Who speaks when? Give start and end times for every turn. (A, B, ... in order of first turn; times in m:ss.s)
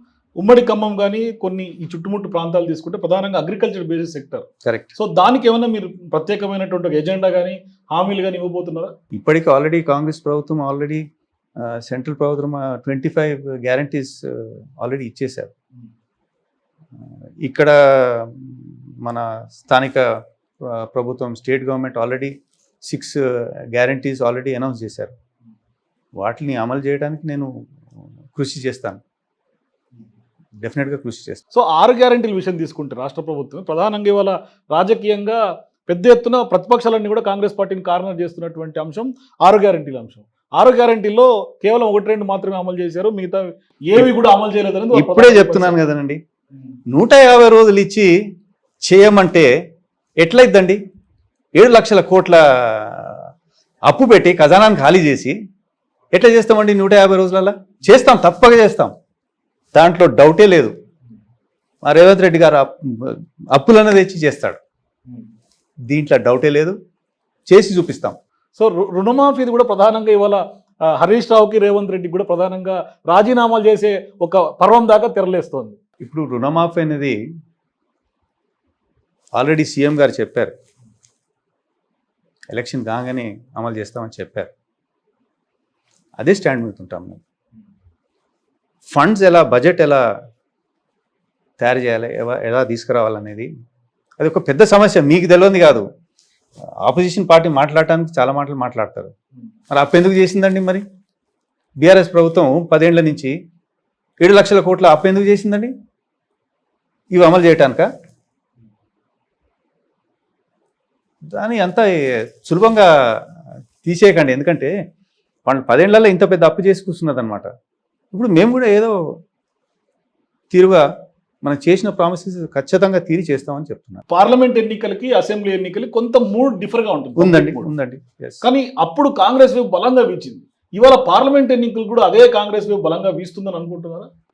0:00.4-0:08.9 A
0:04.6-0:04.9 B
0:09.1-0:11.0 B
0:11.6-0:15.5 B
0:17.0-0:20.0 B
0:20.6-0:22.3 B
0:22.9-0:25.1 B
0:26.2-0:27.5 B
0:28.3-0:29.0 B
0:30.6-0:31.4 B
0:31.5-0:45.8 A
0:44.9-0:46.2 B
0:46.9-0:48.2 B
0:48.8-0:49.5 B
0:50.2-0:50.8 B
0:51.6-0:53.3 B
0:53.9-0:55.4 B
0:56.1-0:58.9 B
0:59.8-1:00.7 B
1:01.8-1:04.6 B
1:05.9-1:06.8 B
1:07.5-1:08.2 B
1:08.6-1:15.8 A
1:16.0-1:17.2 B
1:19.4-1:20.5 B
1:22.5-1:24.5 B
1:26.2-1:27.2 B
1:28.9-1:30.1 B
1:31.6-1:33.5 B
1:34.2-1:35.9 B
1:36.8-1:39.1 B
1:39.7-1:40.8 B
1:41.8-1:43.4 B
1:44.2-1:45.7 B
1:47.1-1:47.9 B
1:51.3-1:54.7 B
1:55.5-1:57.5 B
1:58.1-1:59.2 B
2:00.5-2:00.9 B
2:01.4-2:04.0 B
2:04.1-2:07.7 A
2:07.2-2:08.4 B
2:08.4-2:14.1 A